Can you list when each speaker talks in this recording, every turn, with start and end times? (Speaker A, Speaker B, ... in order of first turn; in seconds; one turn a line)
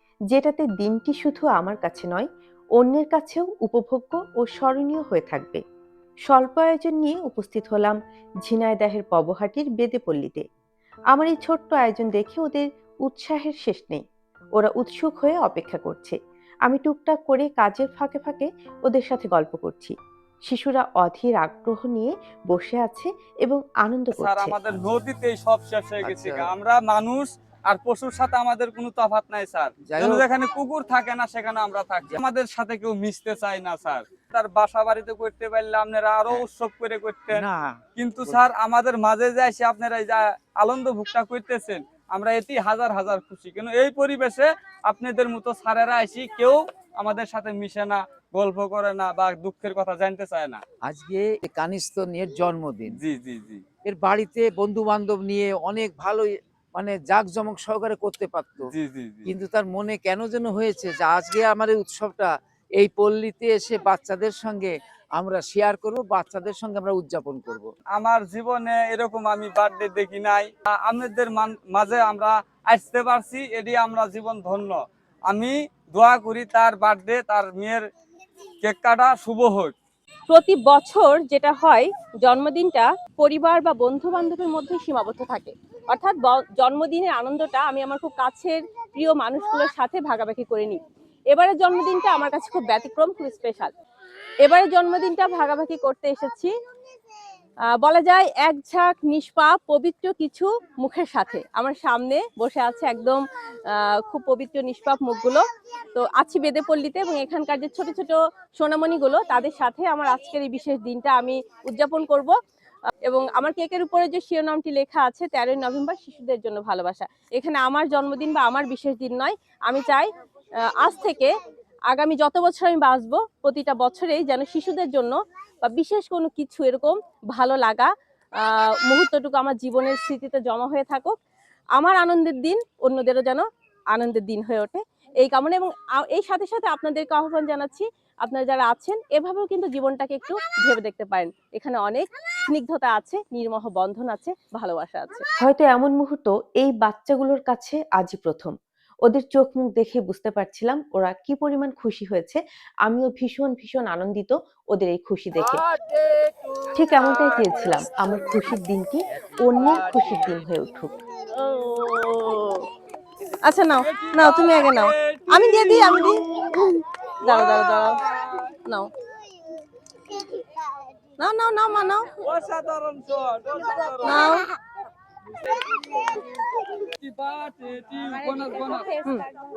Speaker A: 0.3-5.6
Speaker A: 6.3-10.4
Speaker A: 11.1-14.0
Speaker A: 14.6-19.9
Speaker A: 20.5-24.6
Speaker B: 24.2-37.4
Speaker C: 26.0-26.5
Speaker C: 29.9-30.2
Speaker C: 37.3-38.4
Speaker B: 38.0-50.6
Speaker C: 50.8-53.0
Speaker B: 52.9-53.6
Speaker C: 53.9-58.7
Speaker B: 58.7-59.3
Speaker C: 59.3-67.7
Speaker B: 67.9-74.8
Speaker B: 75.3-77.8
Speaker B: 78.6-79.7
Speaker D: 80.3-93.7
Speaker D: 94.4-96.5
Speaker D: 97.8-105.4
Speaker D: 106.0-112.3
Speaker D: 113.1-120.1
Speaker D: 120.7-121.3
Speaker D: 121.9-131.1
Speaker D: 131.8-145.3
Speaker A: 145.4-148.6
Speaker A: 149.1-155.6
Speaker C: 155.4-158.5
Speaker A: 156.8-160.9
Speaker C: 159.2-160.4
Speaker D: 161.3-162.7
Speaker D: 163.4-168.0
Speaker B: 163.8-166.1
Speaker B: 167.2-168.5
Speaker D: 171.2-172.2
Speaker B: 172.2-174.4
Speaker D: 174.0-174.5
Speaker B: 175.6-176.2
Speaker B: 177.0-179.0